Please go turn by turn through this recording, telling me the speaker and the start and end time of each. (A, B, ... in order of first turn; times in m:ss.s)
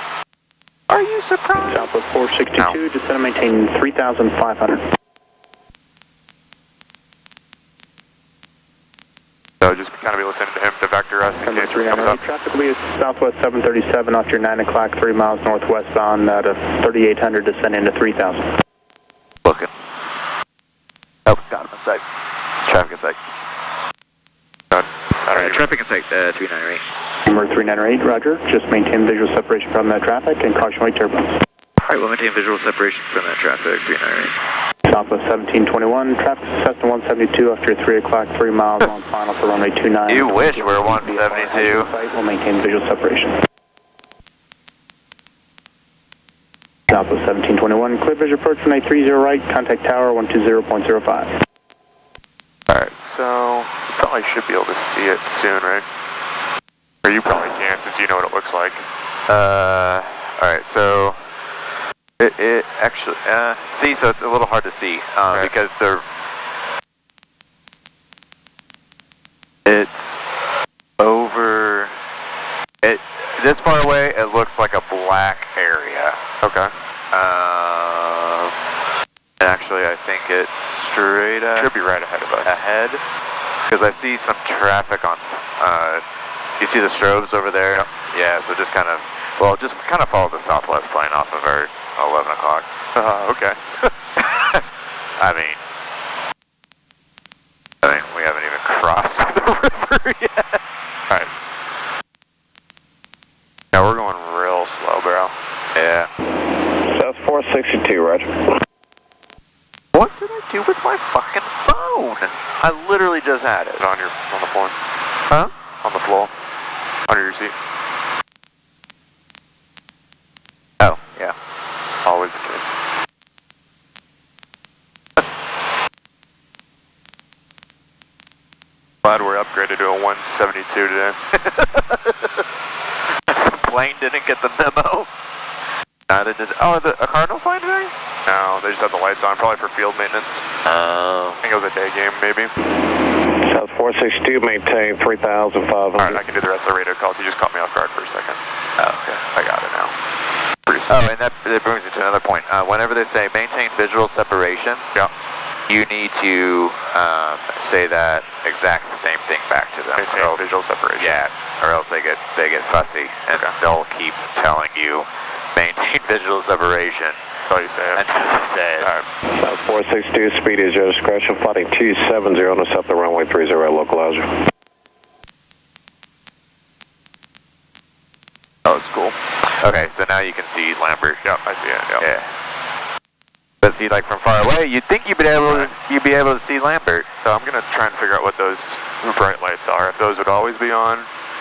0:00.9-0:02.0 A
0:01.6-0:04.8 B
0:09.6-0:12.2 C
0:11.4-0:18.5 B
0:19.4-0:19.7 A
0:21.2-0:22.0 A
0:22.6-0:23.2 A
0:24.7-0:25.6 C
0:25.3-0:26.8 A
0:27.3-0:31.3 B
0:31.8-0:34.3 A
0:34.9-0:43.4 B
0:40.1-0:41.9 A
0:46.9-0:51.3 B
0:52.7-0:55.8 C
0:57.0-0:58.8 C
0:59.3-1:01.2 A
1:02.2-1:06.0 A
1:09.6-1:10.2 A
1:11.0-1:11.9 A
1:12.8-1:16.2 A
1:16.4-1:16.7 C
1:17.1-1:18.5 A
1:19.4-1:21.7 A
1:21.6-1:22.6 C
1:22.4-1:23.0 A
1:23.7-1:26.0 A
1:26.6-1:32.6 A
1:32.9-1:33.9 C
1:34.2-1:34.6 A
1:35.2-1:35.6 A
1:37.8-1:40.6 A
1:43.7-1:45.3 C
1:45.7-1:46.1 A
1:46.9-1:48.5 D
1:49.9-1:53.8 A
1:53.8-1:54.7 C
1:55.8-1:56.3 C
1:57.1-1:57.5 C
2:00.8-2:01.3 A
2:02.0-2:02.7 C
2:09.0-2:11.2 C
2:11.3-2:12.4 A
2:13.3-2:15.1 A
2:16.1-2:17.9 A
2:18.2-2:20.4 C
2:20.6-2:21.4 A
2:21.4-2:22.5 C
2:23.4-2:26.2 D
2:26.0-2:28.4 C
2:28.8-2:29.1 A
2:29.1-2:29.9 C
2:30.7-2:30.9 C
2:30.9-2:34.8 A
2:35.7-2:40.5 A
2:39.9-2:41.2 C
2:41.0-2:47.2 A
2:47.5-2:48.0 C
2:47.9-2:48.9 A
2:48.8-2:49.0 C
2:49.4-2:54.4 D
2:58.6-2:59.1 C
2:59.6-3:01.2 A
3:01.2-3:02.0 C
3:02.0-3:02.3 A
3:03.6-3:07.1 A
3:05.4-3:05.7 C
3:07.2-3:11.1 C